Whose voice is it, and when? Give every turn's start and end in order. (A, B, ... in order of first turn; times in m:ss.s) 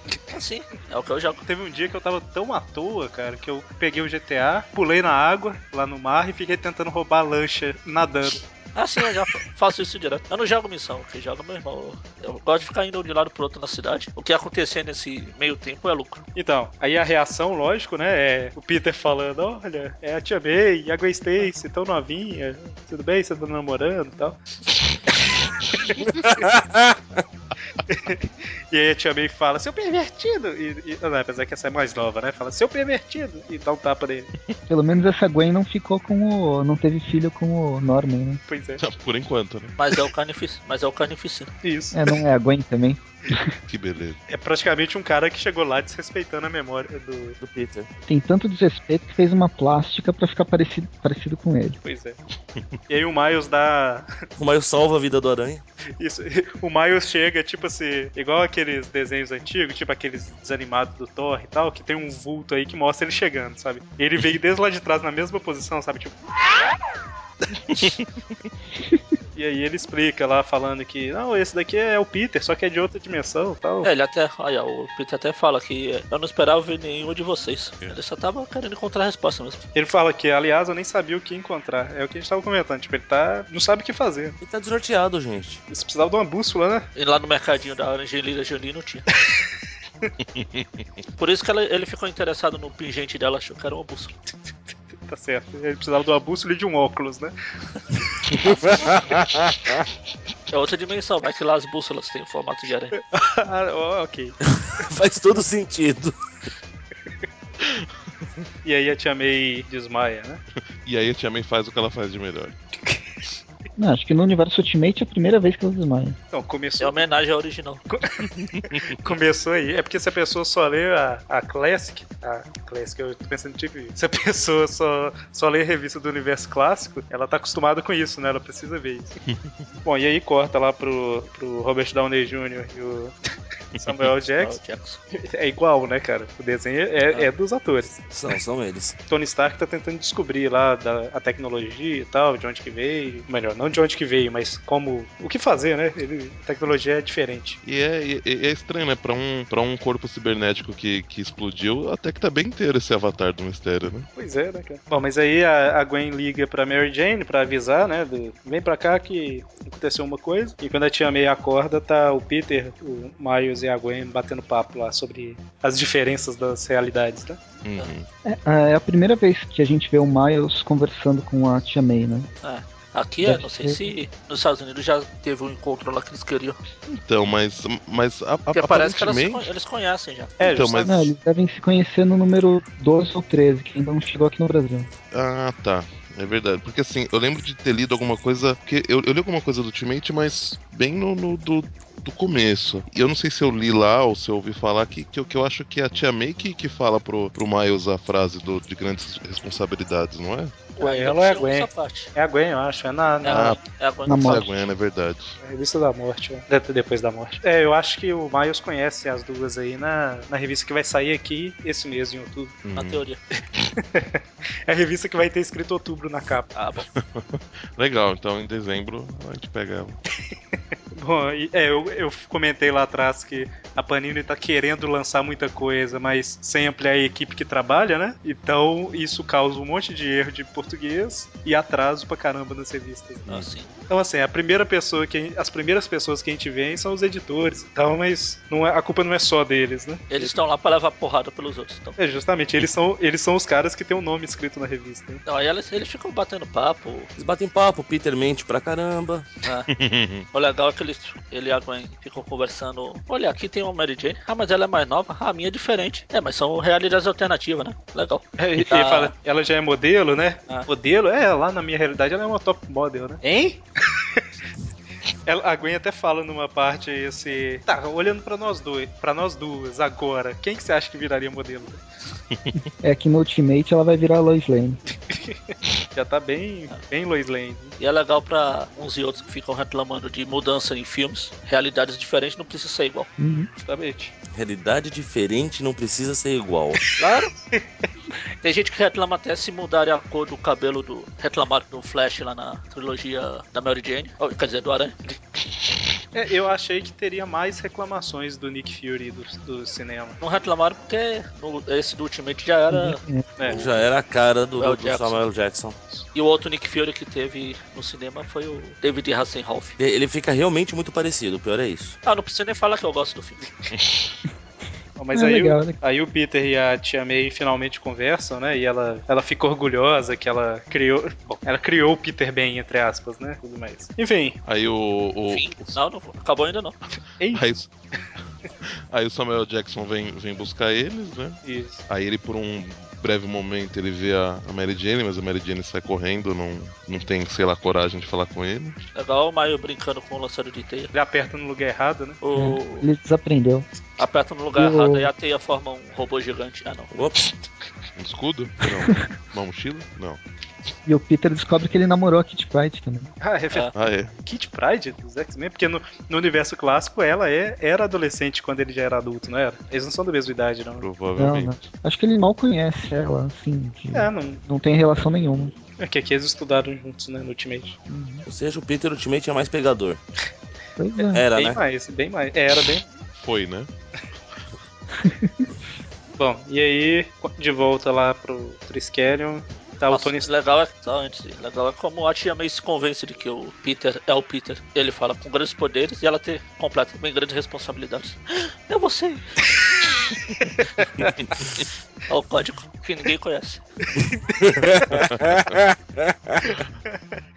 0:00.3-0:01.4 A
0:01.4-0:08.4 B
0:08.8-0:16.2 A
0:16.4-0:24.4 B
0:25.7-0:26.5 B
0:26.4-0:26.9 C
0:27.9-0:34.3 B
0:34.7-0:38.4 D
0:38.5-0:38.8 B
0:38.8-0:39.7 E
0:39.8-0:41.5 A
0:41.6-0:42.2 B
0:41.9-0:43.6 D
0:43.7-0:44.2 E
0:44.3-0:47.4 B
0:47.4-0:47.9 C
0:48.1-0:51.8 D
0:51.8-0:52.2 B
0:52.9-0:54.1 B
0:54.4-0:55.6 C
0:56.0-1:06.1 B
1:09.4-1:13.9 B
1:13.8-1:19.6 A
1:19.8-1:24.4 B
1:24.4-1:25.6 C
1:25.7-1:26.9 B
1:27.0-1:29.1 A
1:30.4-1:30.8 E
1:31.2-1:34.2 A
1:35.1-1:37.3 B
1:38.4-1:39.8 C
1:40.5-1:43.0 A
1:43.1-1:44.4 B
1:44.6-1:46.1 C
1:48.6-1:50.4 B
1:50.8-1:52.6 E
1:53.8-1:56.2 D
1:56.3-1:57.0 B
1:56.8-1:57.8 A
1:57.9-2:09.2 B
1:58.4-1:58.8 E
2:09.8-2:13.2 B
2:13.8-2:14.6 B
2:14.4-2:15.0 A
2:15.1-2:18.0 B
2:18.1-2:19.0 C
2:19.1-2:27.6 B
2:27.6-2:34.1 E
2:34.2-2:47.4 B
2:47.6-2:48.1 E
2:48.2-2:52.3 D
2:52.4-2:56.6 A
2:53.2-2:53.9 D
2:56.9-2:59.5 E
2:58.5-3:00.7 A
3:00.4-3:00.9 B
3:00.4-3:01.1 E
3:00.8-3:04.9 D
3:05.1-3:20.6 E
3:20.8-3:22.1 A
3:20.8-3:23.5 B
3:23.2-3:24.5 A
3:23.3-3:25.4 E
3:24.1-3:24.5 D
3:25.4-3:32.6 B
3:32.6-3:33.0 E
3:32.7-3:33.2 A
3:33.8-3:36.5 B
3:36.6-3:36.9 A
3:37.0-3:40.0 E
3:41.0-3:53.4 B
3:53.3-3:53.7 A
3:53.9-4:00.3 B
4:00.1-4:02.0 A
4:02.0-4:05.2 B
4:05.3-4:07.1 A
4:07.2-4:09.3 C
4:09.4-4:09.7 A
4:09.7-4:10.3 E
4:10.3-4:19.1 A
4:18.4-4:24.2 B
4:25.2-4:31.8 B
4:32.8-4:34.8 D
4:35.1-4:37.8 B
4:37.8-4:43.1 A
4:43.2-4:43.5 D
4:43.6-4:44.1 B
4:44.3-4:46.8 C
4:47.0-4:47.3 A
4:48.4-4:55.0 A
4:56.1-5:00.2 B
5:00.2-5:03.0 A
5:02.7-5:03.3 D
5:03.4-5:03.7 B
5:03.5-5:05.8 C
5:04.6-5:05.2 A
5:06.1-5:09.8 A
5:09.8-5:12.0 C
5:12.0-5:13.4 A
5:15.0-5:24.4 B
5:15.1-5:15.8 D
5:24.4-5:25.8 E
5:25.3-5:26.8 A
5:27.2-5:27.5 B
5:27.3-5:27.7 E
5:28.9-5:38.8 E
5:31.4-5:31.8 B
5:39.0-5:40.9 A
5:40.9-5:42.2 B
5:42.2-5:42.9 A
5:42.4-5:43.7 D
5:44.0-5:46.9 A
5:44.6-5:45.1 D
5:46.9-5:47.3 C
5:48.0-5:50.2 E
5:50.9-5:53.1 D
5:53.2-5:53.7 B
5:53.7-5:54.2 E
5:54.2-6:00.8 B
6:00.8-6:01.6 E
6:01.2-6:05.5 D
6:03.9-6:04.4 B
6:05.8-6:07.8 B
6:07.9-6:08.2 D
6:08.2-6:10.0 C
6:10.8-6:11.2 D
6:11.1-6:11.6 C
6:11.3-6:12.8 B
6:13.2-6:13.7 E
6:14.9-6:15.5 D
6:16.2-6:20.3 B
6:19.9-6:29.4 A
6:30.5-6:31.1 B
6:32.1-6:33.6 A
6:33.9-6:34.2 B
6:34.4-6:36.4 C
6:36.4-6:37.0 B